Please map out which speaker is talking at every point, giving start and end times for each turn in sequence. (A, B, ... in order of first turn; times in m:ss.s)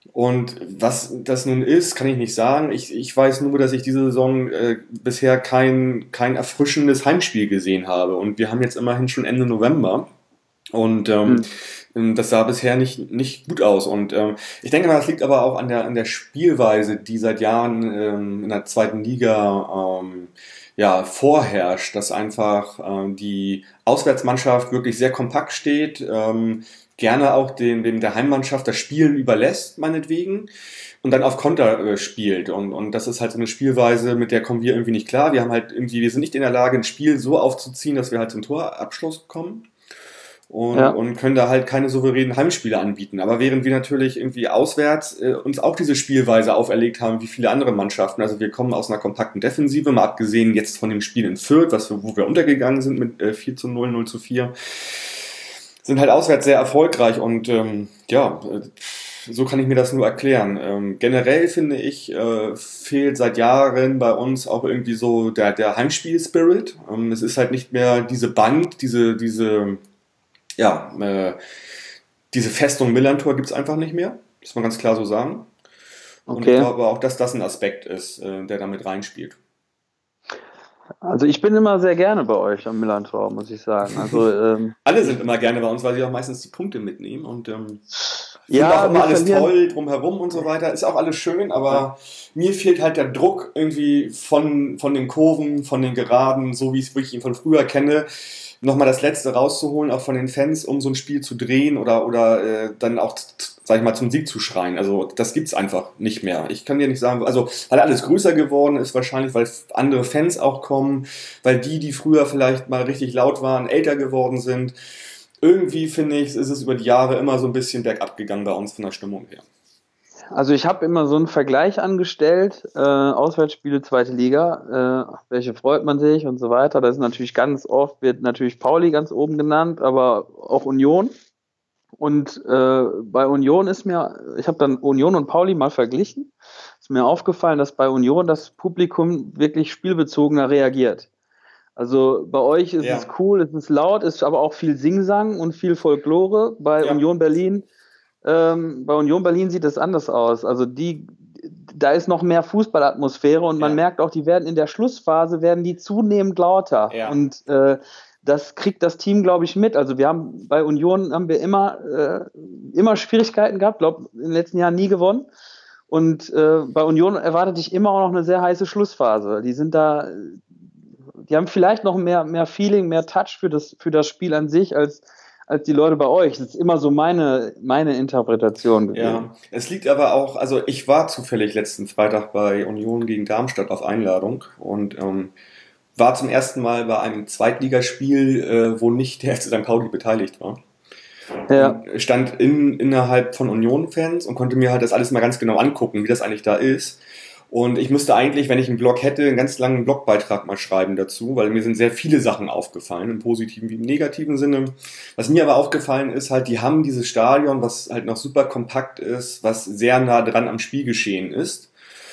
0:00.1-0:10.1 A
0:10.7-0:30.5 A
0:31.0-0:39.7 A
0:40.5-0:55.3 A
0:55.8-1:09.8 A
1:10.6-1:11.4 A
1:12.3-1:15.5 A
1:16.3-1:16.7 B
1:16.3-1:19.4 A
1:21.0-1:24.8 B
1:23.9-1:24.2 A
1:24.8-1:27.8 A
1:28.5-1:29.5 B
1:28.5-1:54.8 A
1:55.4-1:59.4 A
2:00.3-2:11.1 B
2:12.0-2:21.1 B
2:21.8-2:27.6 B
2:22.8-2:23.1 A
2:28.2-2:45.3 B
2:36.9-2:37.2 A
2:45.9-2:50.4 B
2:51.2-2:59.3 B
2:58.9-3:05.3 A
3:06.0-3:10.6 A
3:11.5-3:11.8 B
3:11.5-3:31.7 A